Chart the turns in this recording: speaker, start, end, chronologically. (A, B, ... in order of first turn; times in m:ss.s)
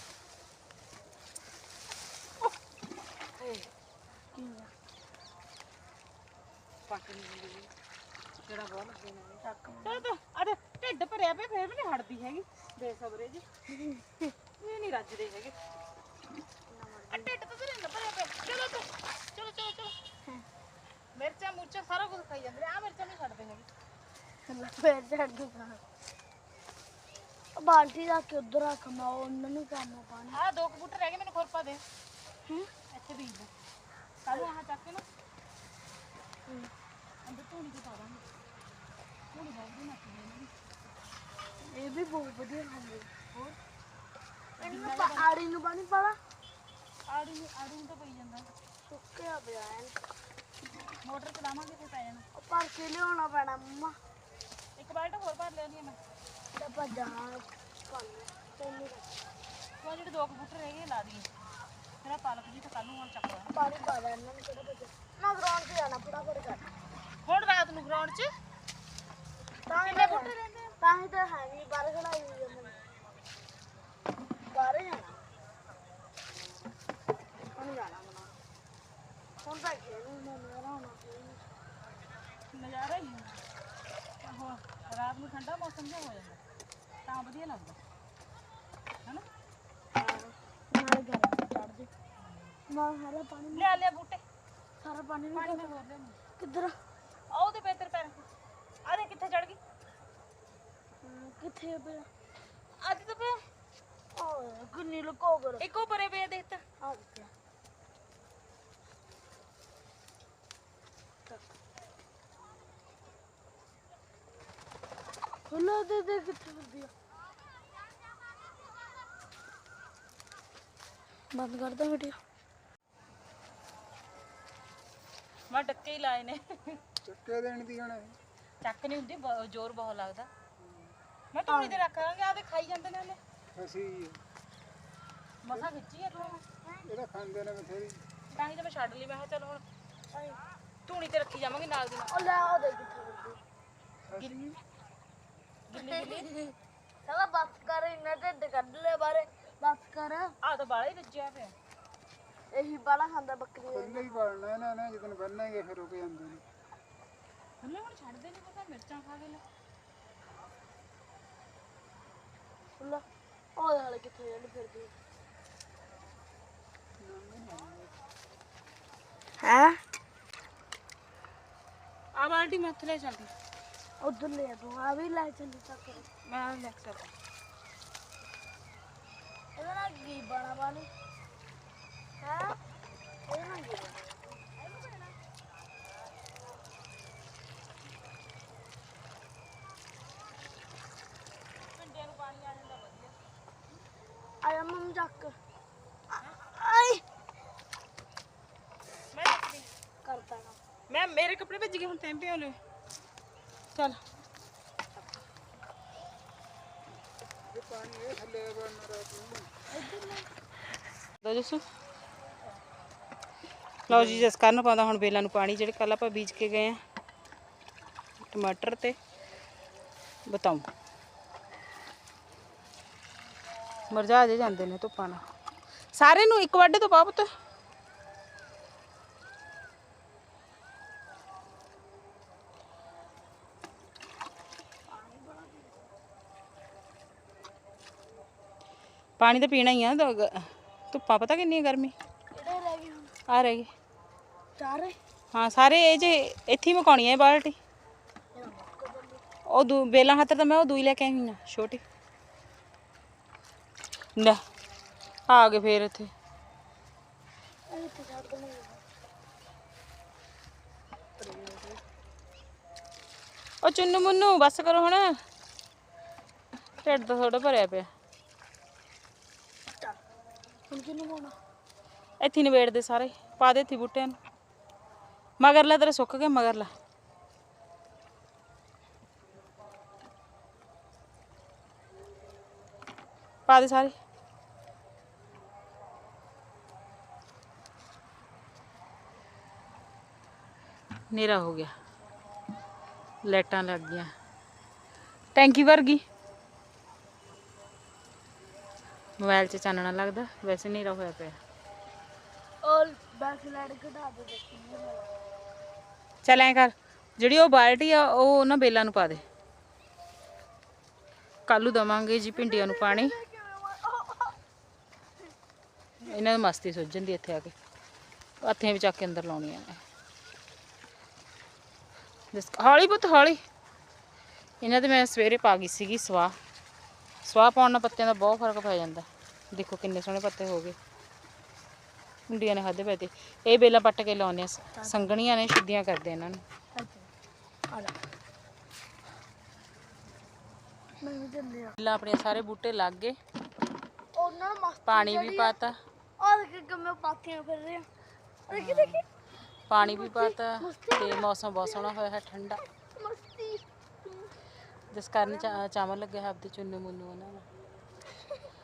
0:03.4-0:03.7 A
0:04.3-0:04.7 B
0:06.9-0:07.7 A
0:08.4-0:13.4 A
0:09.4-0:10.0 B
0:13.7-0:14.3 B
0:14.6-0:15.6 A
0:16.7-0:17.3 B
0:17.1-0:19.9 A
0:21.2-0:23.7 A
0:24.5-0:25.8 B
0:27.6-0:30.4 B
0:30.3-0:31.8 A
0:32.4-0:32.7 B
0:32.9-0:33.5 A
0:34.2-0:35.0 A
0:37.2-0:38.2 A
0:39.3-0:40.5 A
0:41.6-0:43.1 B
0:44.6-0:45.3 A
0:44.6-0:46.2 B
0:47.1-0:48.5 A
0:48.8-0:50.0 B
0:51.0-0:52.2 A
0:52.3-0:54.0 B
0:54.8-0:56.0 A
0:56.5-0:59.1 B
0:59.8-1:01.3 A
1:02.0-1:03.5 A
1:03.5-1:06.7 B
1:07.2-1:08.3 A
1:09.6-1:12.8 B
1:09.7-1:10.7 A
1:14.5-1:15.3 B
1:17.5-1:18.4 B
1:19.4-1:21.5 B
1:22.5-1:23.4 A
1:24.2-1:26.4 A
1:27.0-1:27.8 A
1:29.9-1:31.9 B
1:32.2-1:32.6 A
1:32.7-1:33.8 B
1:33.5-1:34.2 A
1:34.8-1:35.8 B
1:35.3-1:36.2 A
1:36.4-1:36.8 B
1:37.3-1:38.2 A
1:38.8-1:39.6 A
1:41.0-1:42.1 B
1:42.8-1:43.4 A
1:44.1-1:45.6 B
1:45.6-1:46.6 A
1:46.8-1:47.3 B
1:55.5-1:56.9 B
2:01.3-2:02.2 B
2:05.5-2:06.8 A
2:07.0-2:08.2 C
2:08.6-2:10.3 A
2:10.6-2:10.9 C
2:11.3-2:13.2 A
2:11.5-2:11.8 B
2:13.5-2:14.2 C
2:15.4-2:16.4 A
2:16.1-2:16.8 B
2:16.8-2:18.0 C
2:18.3-2:19.6 A
2:20.1-2:20.4 B
2:20.8-2:22.2 A
2:22.1-2:23.4 B
2:24.1-2:24.6 C
2:25.7-2:26.3 A
2:25.8-2:26.5 B
2:27.0-2:30.3 B
2:30.4-2:31.5 A
2:32.5-2:34.2 B
2:33.7-2:36.4 C
2:37.6-2:39.4 A
2:42.8-2:43.0 B
2:43.6-2:44.9 B
2:47.0-2:47.9 C
2:49.4-2:49.8 B
2:52.2-2:53.3 A
2:54.0-2:56.1 B
2:56.2-2:57.1 A
2:59.6-3:00.9 B
3:02.2-3:02.6 B
3:03.3-3:04.5 B
3:04.6-3:05.1 A
3:11.7-3:13.2 A
3:14.4-3:15.4 B
3:16.4-3:17.0 B
3:19.1-3:19.7 A
3:20.0-3:20.6 B
3:20.9-3:22.6 A
3:23.7-3:24.0 A
3:27.5-3:29.5 C
3:29.7-3:30.3 B
3:31.2-3:31.6 A
3:33.9-3:34.3 C
3:33.9-3:36.8 A
3:38.2-3:39.0 A
3:40.3-3:40.7 A
3:43.9-3:45.2 A
3:45.9-3:47.3 A
3:54.9-3:55.8 B
3:59.2-4:01.9 A
4:02.3-4:03.1 B
4:03.3-4:03.7 A
4:04.6-4:05.0 B
4:05.3-4:07.6 A
4:08.3-4:09.2 B
4:09.5-4:11.8 A
4:15.3-4:16.1 A
4:17.7-4:18.8 B
4:21.3-4:21.6 A
4:23.6-4:25.1 A
4:26.8-4:27.9 A
4:30.7-4:31.4 B
4:32.2-4:34.2 A
4:35.4-4:36.7 A
4:43.5-4:43.9 A
4:51.1-4:51.7 A
4:53.2-4:54.1 A
4:55.3-4:56.0 A
4:59.2-5:01.4 A
5:02.6-5:05.2 B
5:06.2-5:09.2 A
5:11.5-5:13.2 A
5:12.3-5:14.4 B
5:16.0-5:17.5 A
5:18.4-5:19.8 A
5:22.3-5:23.4 A
5:24.6-5:26.4 A
5:27.2-5:30.8 A
5:32.3-5:36.4 A
5:34.8-5:35.1 B
5:36.7-5:37.1 B
5:37.7-5:38.0 B
5:41.0-5:41.8 B
5:41.8-5:43.2 A
5:44.1-5:45.6 B
5:44.8-5:45.7 A
5:46.2-5:47.9 B
5:48.5-5:49.0 A
5:48.5-5:49.0 B
5:49.7-5:52.6 A
5:49.8-5:52.0 B
5:52.6-5:54.4 B
5:54.9-5:57.4 A
5:55.2-5:55.6 B
5:58.1-5:58.5 B